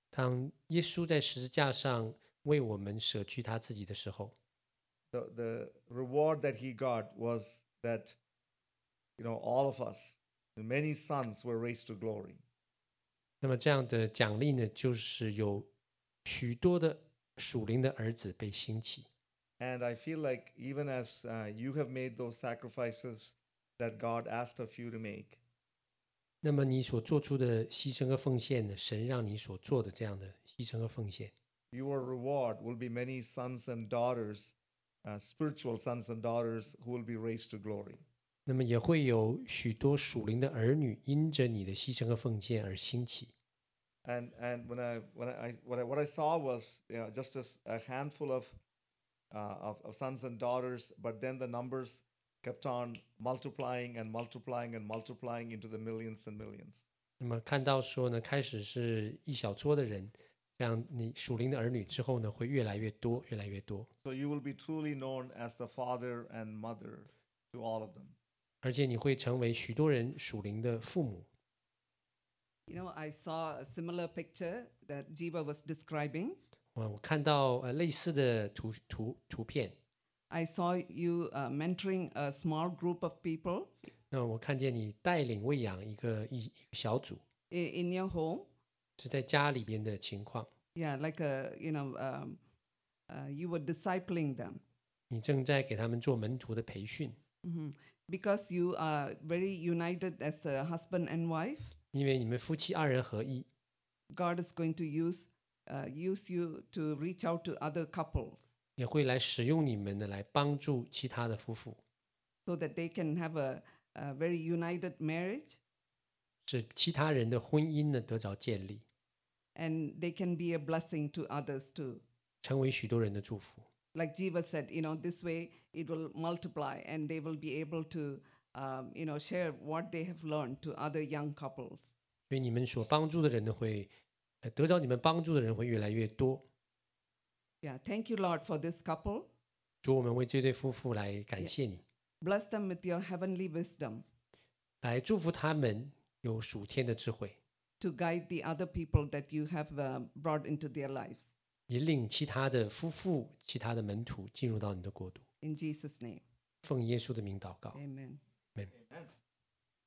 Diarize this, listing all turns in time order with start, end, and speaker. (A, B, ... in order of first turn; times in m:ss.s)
0:00.1-0:04.4 A
0:05.1-0:08.2 B
0:09.2-0:12.4 B
0:13.4-0:15.7 A
0:16.2-0:19.1 A
0:19.6-0:25.4 B
0:26.4-0:31.3 A
0:31.7-0:38.0 B
0:38.5-0:43.3 A
0:44.0-0:48.6 B
0:49.3-0:56.9 B
0:57.2-1:03.9 A
1:04.0-1:08.2 B
1:08.6-1:11.3 A
1:12.7-1:16.4 C
1:16.8-1:19.8 A
1:20.3-1:23.7 C
1:24.1-1:27.2 A
1:27.5-1:28.5 C
1:29.0-1:30.5 A
1:30.8-1:32.4 C
1:33.1-1:34.6 C
1:35.1-1:37.2 A
1:37.4-1:41.8 C
1:41.9-1:43.5 A
1:44.1-1:48.5 C
1:48.8-1:51.8 A
1:52.4-1:55.6 C
1:56.4-1:58.8 A
1:59.6-2:02.0 C
2:02.4-2:03.7 A
2:04.0-2:12.0 C
2:12.3-2:13.9 A
2:14.4-2:16.4 A
2:17.6-2:19.3 C
2:19.8-2:21.8 A
2:22.2-2:24.0 C
2:24.8-2:27.4 A
2:27.8-2:31.3 C
2:31.7-2:35.2 A
2:35.4-2:36.2 C
2:36.6-2:37.8 A
2:37.8-2:38.2 C
2:38.7-2:39.1 B